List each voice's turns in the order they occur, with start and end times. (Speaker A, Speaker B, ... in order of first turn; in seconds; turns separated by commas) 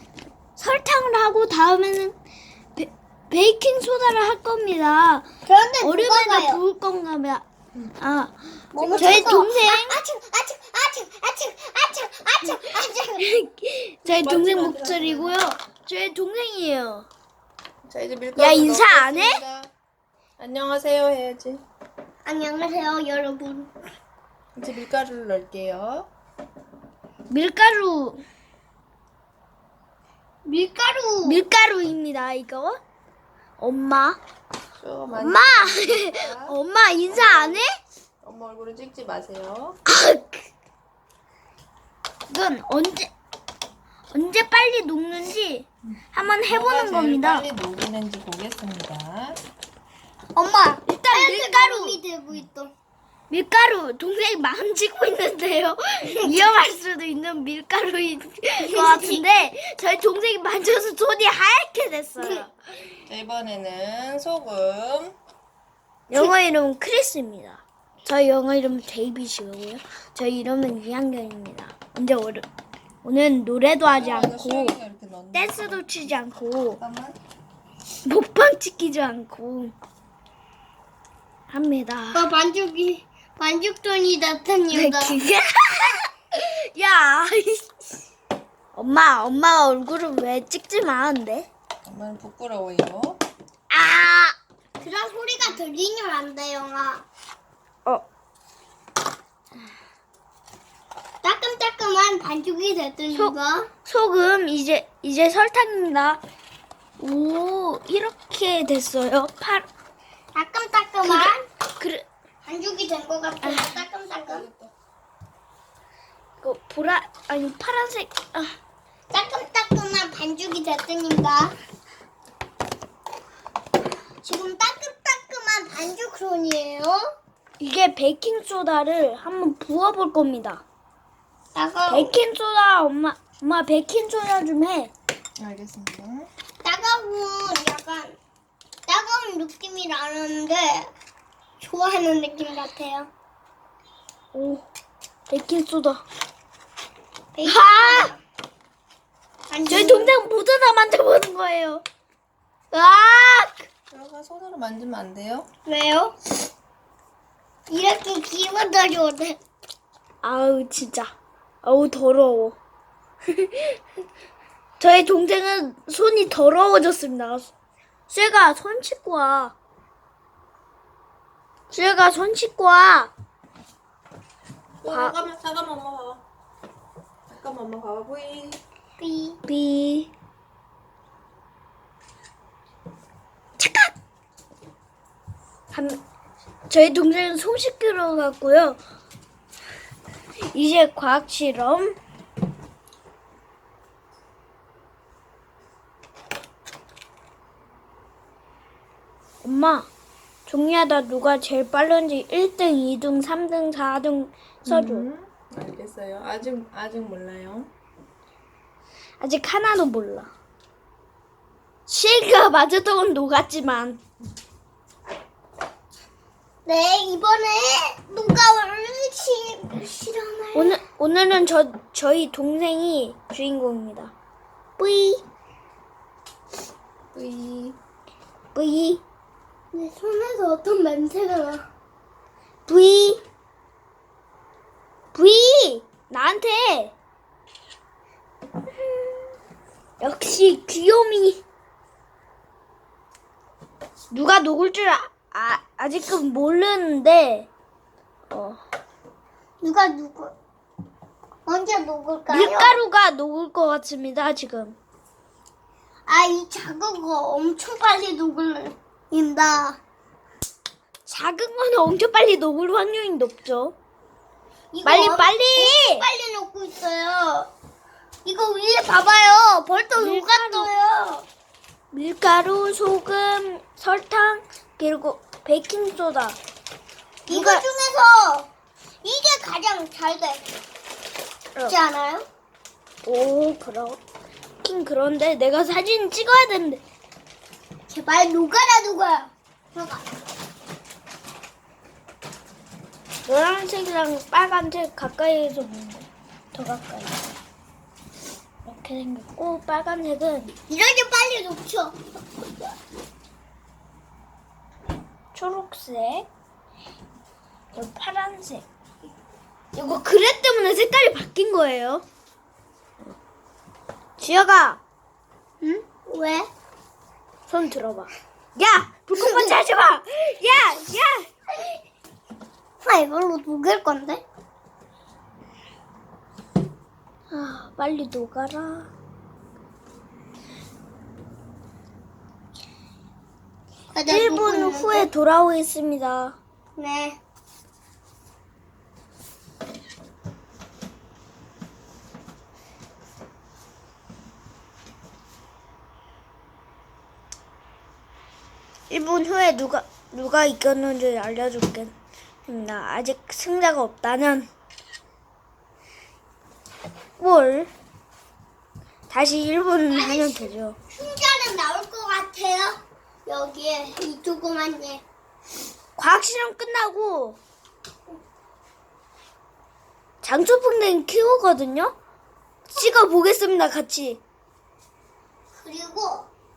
Speaker A: 0.6-2.1, Speaker A: 2.8-5.3, Speaker B: 5.5-6.6, Speaker A: 5.8-7.5, Speaker A: 8.0-10.0, Speaker B: 8.7-13.2, Speaker A: 13.2-17.1, Speaker C: 14.0-15.4, Speaker C: 17.9-19.7, Speaker A: 18.4-19.4, Speaker C: 20.4-21.6, Speaker B: 22.2-23.7, Speaker C: 24.6-26.1, Speaker A: 27.3-28.2, Speaker B: 30.4-31.4, Speaker A: 31.2-32.8, Speaker A: 33.6-34.2, Speaker C: 34.8-36.5, Speaker A: 35.2-37.8, Speaker C: 37.1-37.6, Speaker C: 38.2-39.8, Speaker A: 39.9-40.5, Speaker A: 42.3-43.1, Speaker A: 44.1-47.5, Speaker C: 45.9-49.4, Speaker B: 50.3-52.7, Speaker A: 50.9-52.0, Speaker A: 53.3-62.5, Speaker B: 58.7-59.2, Speaker C: 63.1-65.2, Speaker A: 66.1-72.5, Speaker A: 73.0-74.8, Speaker C: 73.9-76.1, Speaker A: 75.3-76.8, Speaker C: 76.8-77.2, Speaker A: 78.0-79.7, Speaker A: 81.5-82.2, Speaker B: 82.1-85.2, Speaker A: 84.7-87.9, Speaker A: 88.7-91.5, Speaker C: 91.8-93.2, Speaker B: 93.7-97.0, Speaker B: 101.2-103.7, Speaker A: 103.9-106.2, Speaker A: 107.0-109.7, Speaker B: 110.3-111.4, Speaker A: 111.0-112.0, Speaker B: 112.4-114.5, Speaker A: 113.4-113.8, Speaker C: 114.0-114.7, Speaker A: 116.4-118.5, Speaker B: 119.1-121.5, Speaker B: 124.2-127.1, Speaker A: 127.6-130.6, Speaker B: 131.6-132.1, Speaker A: 131.9-134.9, Speaker C: 135.4-136.3, Speaker B: 136.6-138.2, Speaker B: 138.9-140.9, Speaker B: 141.6-143.1, Speaker A: 144.3-144.6, Speaker A: 145.3-146.0, Speaker B: 147.4-148.2, Speaker A: 147.4-148.1, Speaker B: 149.5-150.1, Speaker A: 149.7-151.8, Speaker A: 152.7-153.7, Speaker C: 153.9-155.5, Speaker B: 155.7-156.1, Speaker B: 157.7-159.4, Speaker A: 160.2-162.6, Speaker A: 163.3-163.8, Speaker A: 164.8-167.5, Speaker A: 168.1-169.6, Speaker A: 171.7-173.1, Speaker C: 174.8-176.2, Speaker A: 174.9-175.2, Speaker C: 177.3-178.6, Speaker B: 179.0-179.4, Speaker A: 179.4-180.1, Speaker A: 183.6-183.9, Speaker A: 185.7-186.0, Speaker A: 186.7-188.8, Speaker A: 190.4-191.9, Speaker A: 199.4-199.9, Speaker A: 200.5-205.1, Speaker C: 204.7-207.7, Speaker A: 209.2-210.3, Speaker A: 211.9-214.0, Speaker B: 216.7-220.8, Speaker A: 220.6-224.1, Speaker B: 224.8-225.2, Speaker C: 227.1-227.6, Speaker A: 228.6-229.0, Speaker B: 229.7-231.7, Speaker B: 232.7-233.2, Speaker B: 235.1-235.8, Speaker A: 236.1-236.9, Speaker A: 240.0-241.4, Speaker A: 244.1-247.5, Speaker A: 248.3-248.6, Speaker B: 249.6-250.3, Speaker B: 251.5-252.8, Speaker A: 252.3-254.8, Speaker B: 256.1-259.8, Speaker A: 261.1-263.8, Speaker B: 264.7-267.5, Speaker A: 264.8-266.1, Speaker B: 268.2-271.2, Speaker A: 270.0-270.7, Speaker A: 271.9-276.4, Speaker B: 277.3-278.5, Speaker A: 277.3-277.6, Speaker B: 279.0-280.4, Speaker B: 281.7-282.2, Speaker A: 283.1-284.0, Speaker A: 284.6-286.8, Speaker B: 287.9-290.1, Speaker A: 293.2-297.2, Speaker A: 298.6-300.6, Speaker B: 300.7-302.0, Speaker A: 305.3-306.3, Speaker A: 307.7-308.6, Speaker A: 309.7-312.0, Speaker A: 314.2-314.8, Speaker B: 315.6-316.5, Speaker A: 317.5-321.3, Speaker B: 319.1-319.6, Speaker B: 322.8-324.2, Speaker A: 327.3-328.9, Speaker B: 333.9-335.1, Speaker A: 334.1-336.4, Speaker B: 336.8-337.2, Speaker A: 348.9-351.9, Speaker A: 352.5-354.5, Speaker A: 357.2-357.7, Speaker A: 359.1-360.8, Speaker B: 359.9-365.0, Speaker A: 366.0-367.4, Speaker A: 370.2-371.9, Speaker A: 372.7-374.2, Speaker B: 375.6-376.3